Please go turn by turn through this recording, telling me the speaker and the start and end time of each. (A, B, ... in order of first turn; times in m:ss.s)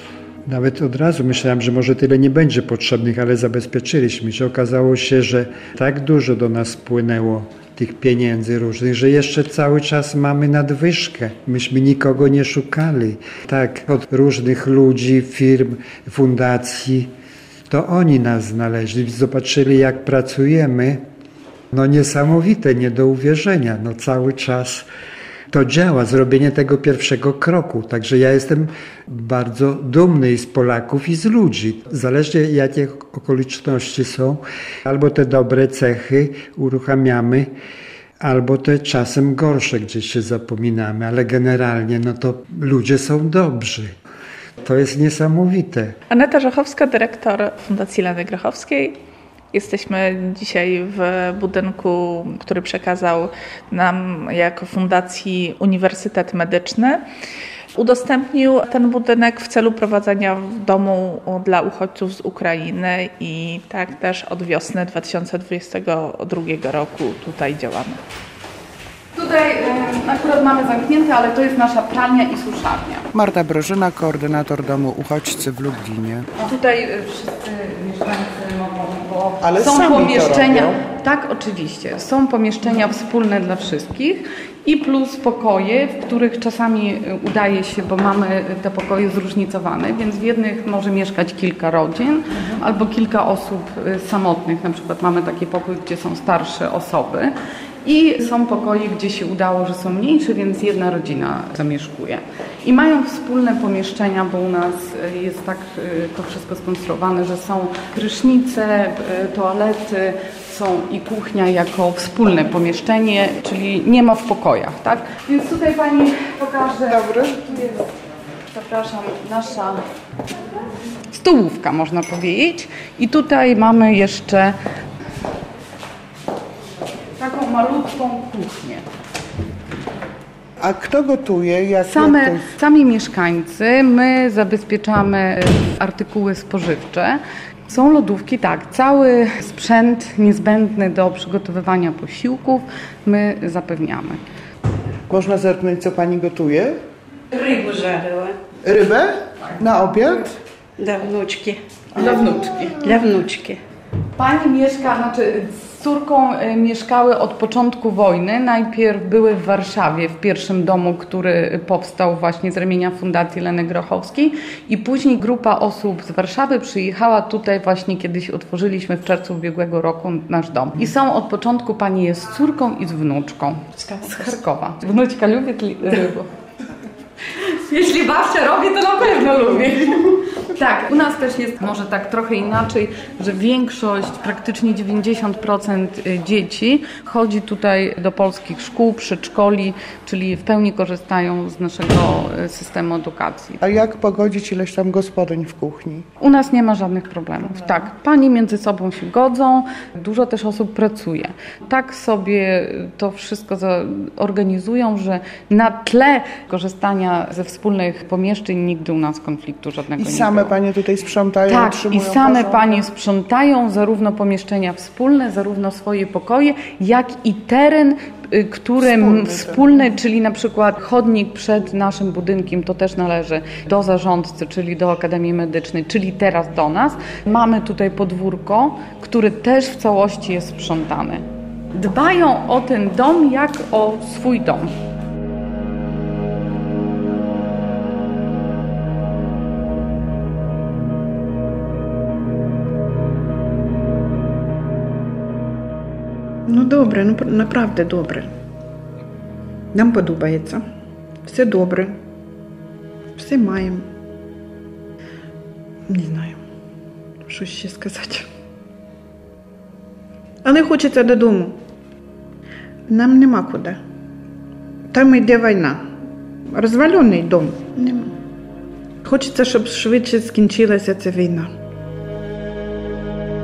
0:00.4-0:17.1 A
0:17.7-0:21.0 A
0:21.7-0:24.9 A
0:25.5-0:37.5 A
0:38.2-0:43.9 A
0:44.6-0:46.0 A
0:46.1-0:49.0 B
0:49.5-0:57.0 B
0:57.8-1:08.0 B
1:09.1-1:13.1 C
1:13.1-1:16.3 D
1:16.4-1:37.3 C
1:19.4-1:20.8 D
1:37.8-1:57.8 C
1:56.9-1:57.4 D
1:58.5-1:59.8 C
2:01.1-2:04.6 C
2:07.2-2:08.8 C
2:10.6-2:12.5 D
2:11.9-2:24.2 C
2:25.1-2:26.8 D
2:27.3-2:28.4 E
2:28.6-2:30.4 D
2:30.8-2:33.6 E
2:32.0-2:32.8 C
2:34.2-2:56.3 C
2:57.4-3:13.6 C
3:13.6-3:16.0 D
3:16.2-3:30.6 C
3:30.0-3:32.8 D
3:31.4-3:54.7 C
3:38.8-3:39.6 D
4:06.5-4:08.3 F
4:09.7-4:10.6 F
4:11.2-4:12.0 F
4:13.1-4:13.9 F
4:15.9-4:16.4 F
4:17.3-4:18.3 F
4:20.4-4:21.6 F
4:22.9-4:23.8 F
4:24.9-4:25.8 F
4:26.5-4:28.2 F
4:29.0-4:31.5 F